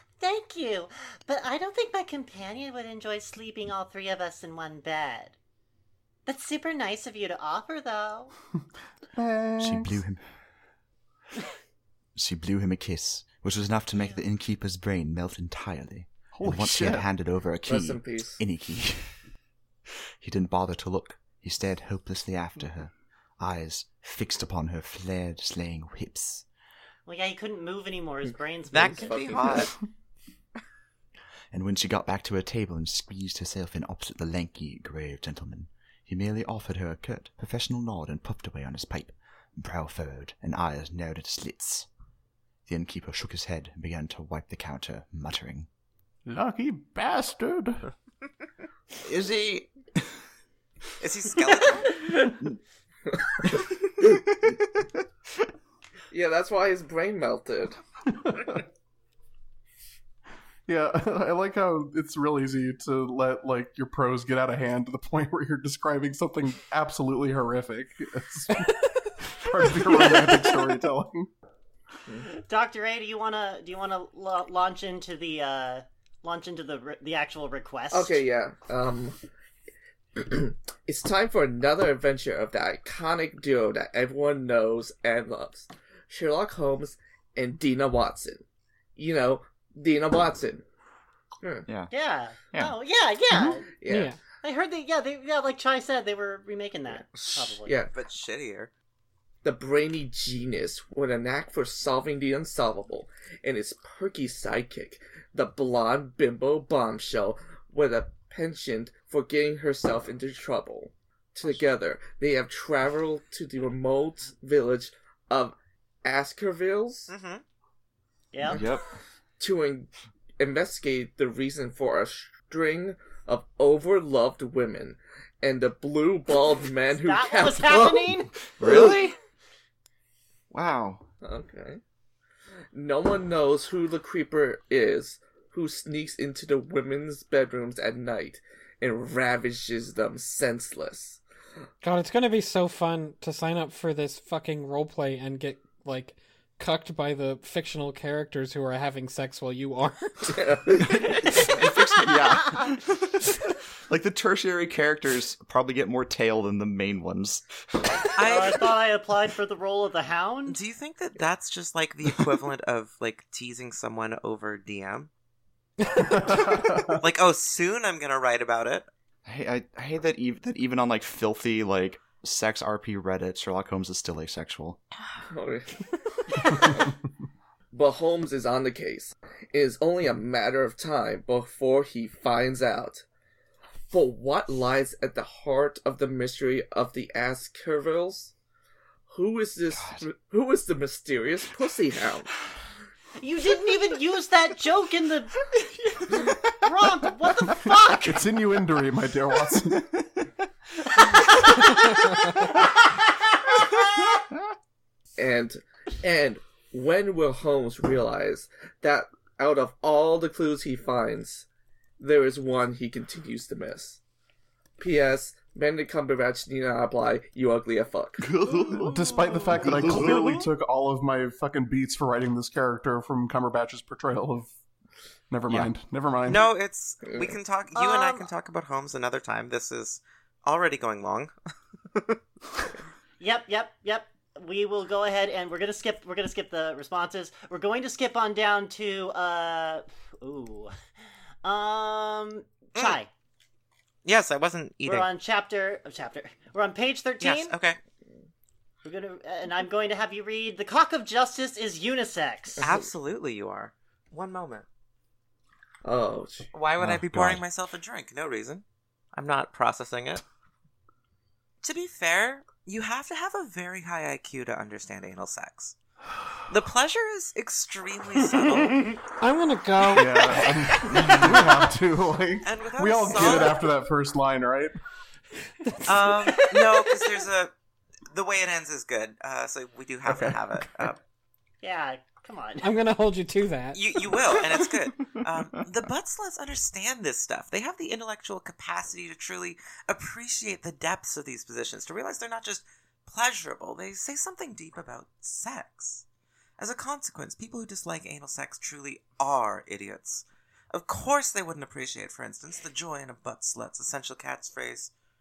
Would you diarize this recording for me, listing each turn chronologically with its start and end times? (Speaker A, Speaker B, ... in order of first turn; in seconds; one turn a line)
Speaker A: 0.2-5.3
Speaker A: 6.2-8.3
Speaker B: 9.2-10.0
Speaker C: 9.6-10.2
Speaker C: 12.1-19.1
Speaker A: 13.9-14.2
Speaker B: 16.4-17.1
Speaker D: 17.7-18.4
Speaker C: 20.2-26.4
Speaker A: 27.1-29.6
Speaker E: 28.7-29.7
Speaker D: 28.8-29.7
Speaker C: 31.5-41.9
Speaker C: 42.7-45.7
Speaker B: 46.2-47.9
Speaker C: 49.0-50.0
Speaker E: 51.0-52.0
Speaker C: 54.0-54.6
Speaker D: 56.1-57.8
Speaker B: 60.7-68.7
Speaker B: 69.3-71.3
Speaker F: 69.9-70.5
Speaker A: 72.3-78.2
Speaker D: 77.9-79.2
Speaker D: 80.1-88.4
Speaker D: 89.0-90.6
Speaker D: 91.4-91.7
Speaker A: 91.9-93.7
Speaker D: 93.8-94.1
Speaker F: 93.8-94.2
Speaker A: 94.4-97.8
Speaker D: 96.9-97.9
Speaker E: 97.9-98.7
Speaker D: 99.4-117.1
Speaker E: 117.1-117.4
Speaker A: 118.3-118.6
Speaker C: 118.5-118.8
Speaker D: 119.4-129.0
Speaker A: 127.0-128.3
Speaker C: 128.6-129.1
Speaker C: 130.5-131.0
Speaker D: 131.2-131.8
Speaker D: 132.7-141.2
Speaker F: 141.8-150.4
Speaker D: 150.3-151.3
Speaker C: 151.0-153.4
Speaker A: 151.7-152.6
Speaker C: 153.9-157.4
Speaker E: 158.2-158.7
Speaker A: 158.2-160.6
Speaker E: 160.5-165.1
Speaker B: 166.0-167.0
Speaker E: 166.2-168.9
Speaker C: 169.2-174.8
Speaker D: 175.3-176.9
Speaker D: 177.7-183.0
Speaker D: 183.9-188.3
Speaker D: 189.1-192.3
Speaker C: 189.7-190.1
Speaker A: 193.2-195.4
Speaker C: 196.0-196.3
Speaker A: 196.5-198.3
Speaker B: 198.0-199.9
Speaker D: 205.2-211.4
Speaker D: 212.0-214.0
Speaker D: 214.8-218.3
Speaker C: 218.2-220.5
Speaker B: 218.7-224.5
Speaker B: 225.3-226.5
Speaker E: 226.2-231.3
Speaker D: 227.0-227.3
Speaker A: 227.7-228.3
Speaker A: 233.2-240.7
Speaker A: 241.4-243.1
Speaker E: 244.0-245.1
Speaker A: 244.8-247.5
Speaker E: 247.2-247.8
Speaker A: 248.8-252.6
Speaker D: 252.6-252.9
Speaker E: 252.6-254.7
Speaker D: 255.8-256.5
Speaker E: 256.5-260.2
Speaker C: 256.8-257.4
Speaker E: 261.6-265.7
Speaker E: 266.5-268.9
Speaker F: 269.2-271.4
Speaker B: 269.9-274.8
Speaker E: 272.4-273.6
Speaker F: 275.7-276.5
Speaker E: 275.8-277.5
Speaker E: 278.1-281.0
Speaker B: 280.1-280.9
Speaker A: 281.6-282.7
Speaker F: 282.6-284.0
Speaker E: 283.7-296.0
Speaker E: 296.6-304.9